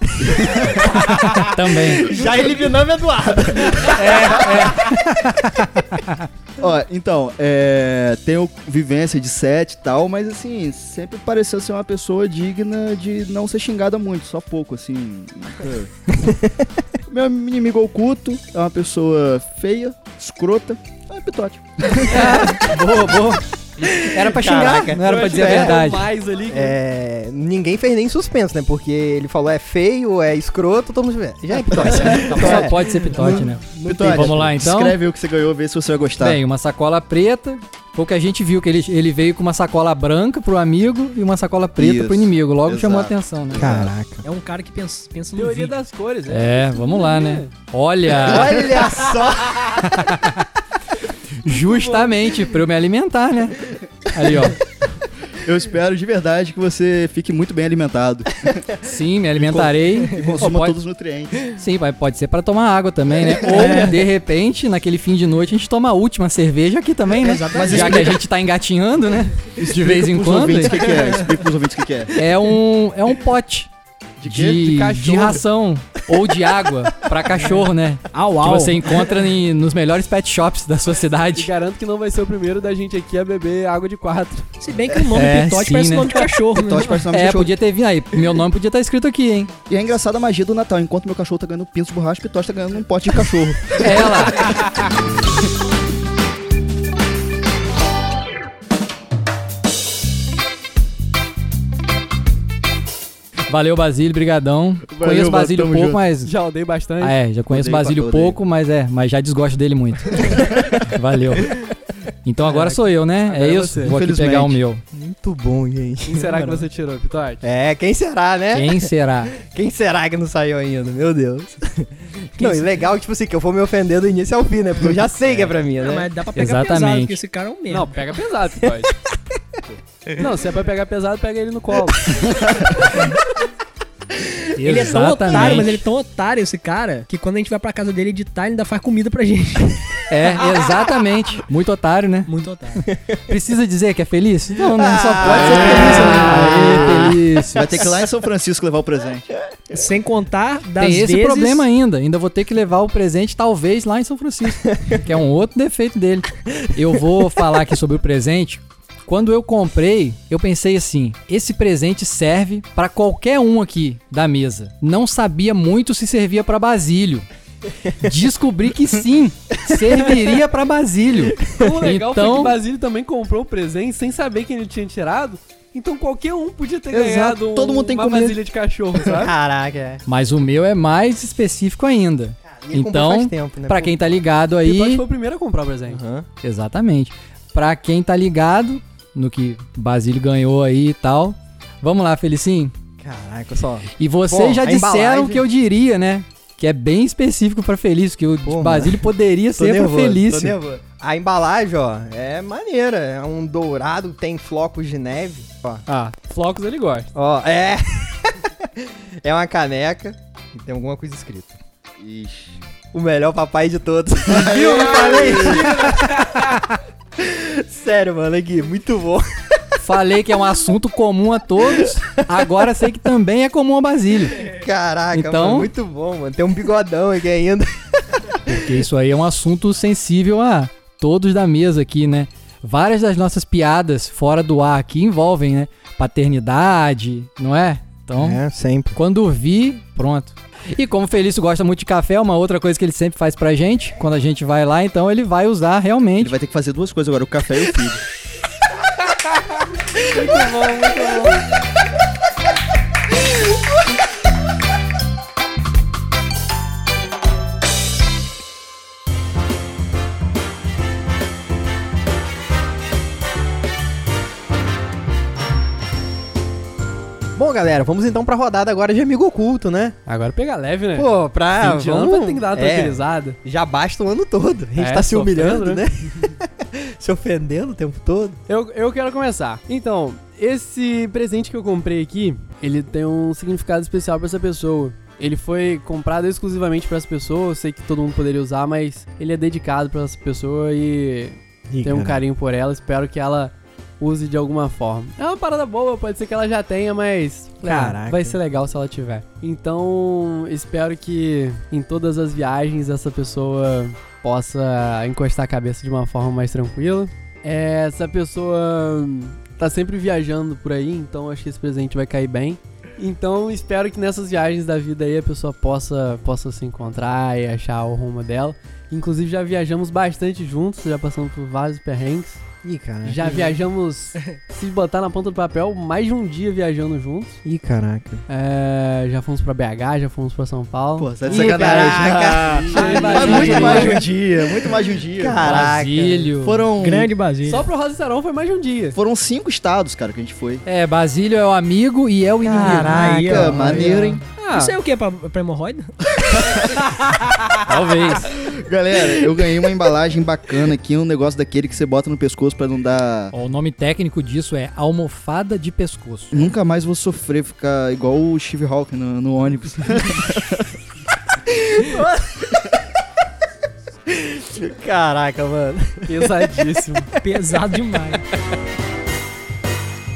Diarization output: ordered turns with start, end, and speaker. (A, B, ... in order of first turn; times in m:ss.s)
0:00.2-0:04.9 A
0:01.0-0:02.1 B
0:03.7-0:06.3 B
0:06.6-0:15.9 C
0:16.2-0:16.7 A
0:17.1-0:22.4 C
0:22.0-0:26.1 B
0:23.8-0:25.8 A
0:24.9-0:26.8 D
0:26.5-0:34.1 A
0:31.9-0:35.0 B
0:33.3-0:36.4 C
0:36.2-0:43.6 B
0:41.8-0:43.9 C
0:43.6-0:44.3 A
0:44.2-0:45.8 E
0:45.4-0:47.5 D
0:46.3-0:49.0 B
0:48.1-0:49.8 A
0:49.6-0:50.5 B
0:51.4-0:54.6 B
0:51.5-0:52.1 D
0:55.3-0:58.7 C
0:58.8-1:00.8 B
0:59.4-1:01.5 C
1:01.5-1:11.0 B
1:03.5-1:04.0 E
1:07.2-1:08.2 E
1:07.5-1:08.2 C
1:09.6-1:10.6 D
1:10.1-1:12.1 C
1:10.9-1:11.3 E
1:12.2-1:13.7 B
1:14.2-1:14.7 C
1:14.2-1:21.5 B
1:14.6-1:15.4 D
1:18.1-1:19.1 E
1:21.4-1:24.5 D
1:24.6-1:27.0 E
1:25.1-1:26.3 B
1:26.5-1:27.6 C
1:27.1-1:29.5 B
1:29.7-1:34.5 C
1:33.7-1:34.7 B
1:43.5-1:46.3 B
1:44.9-1:46.0 C
1:46.2-1:47.2 D
1:47.0-1:51.6 B
1:47.5-1:48.4 C
1:52.2-1:54.8 B
1:52.4-1:54.0 D
1:53.8-1:54.6 C
1:54.9-1:56.7 A
1:56.1-1:57.4 D
1:57.4-2:06.1 A
1:58.5-1:59.3 B
2:02.4-2:02.7 E
2:05.8-2:08.0 E
2:06.4-2:07.2 B
2:07.7-2:08.9 D
2:10.2-2:12.2 D
2:14.2-2:20.1 E
2:14.6-2:15.8 B
2:20.1-2:22.3 B
2:22.3-2:22.8 E
2:22.9-2:23.2 A
2:23.3-2:27.9 B
2:24.7-2:28.0 A
2:25.5-2:26.6 D
2:25.5-2:25.9 C
2:27.5-2:29.3 C
2:29.7-2:31.7 E
2:30.8-2:47.3 B
2:48.0-2:52.6 B
2:51.4-2:59.4 D
2:56.9-2:58.4 C
2:59.1-3:00.0 A
3:00.1-3:05.0 B
3:02.5-3:03.9 A
3:04.6-3:06.0 D
3:05.9-3:06.3 A
3:06.4-3:12.8 B
3:13.0-3:15.4 A
3:14.0-3:20.6 B
3:18.4-3:25.8 A
3:25.9-3:27.1 D
3:27.2-3:31.6 A
3:32.0-3:32.6 C
3:32.9-3:36.4 A
3:34.3-3:36.5 D
3:34.6-3:35.3 C
3:37.2-3:39.6 A
3:39.8-3:44.5 B
3:44.4-3:48.5 A
3:45.1-3:45.7 B
3:48.5-3:58.4 B
3:58.2-3:59.0 A
3:59.0-4:06.4 B
4:06.2-4:08.0 C
4:10.0-4:11.4 D
4:27.4-4:30.0 A
4:30.1-4:33.4 D
4:31.0-4:38.4 A
4:34.8-4:35.8 D
4:38.5-5:22.4 D
4:51.7-4:52.2 A
4:57.6-4:58.4 A
5:22.6-5:23.5 A
5:23.0-5:27.4 D
5:27.4-5:28.2 A
5:28.3-5:31.9 D
5:31.0-5:35.6 C
5:31.3-5:34.0 A
5:32.7-5:34.0 D
5:32.8-5:34.0 E
5:35.2-5:36.3 A
5:35.4-5:36.7 B
5:36.4-5:37.1 C
5:36.8-5:37.7 E
5:37.5-5:39.0 D
5:39.0-5:40.6 C
5:40.7-5:43.2 B
5:42.4-5:43.9 A
5:42.5-5:46.7 E
5:43.1-5:44.2 C
5:44.4-5:44.8 D
5:46.3-5:46.8 C
5:47.6-5:48.3 B
5:48.2-5:53.3 C
5:53.3-5:56.5 B
5:56.3-6:00.7 C
6:01.5-6:02.6 A
6:04.1-6:06.6 A
6:06.1-6:07.1 D
6:07.2-6:08.2 E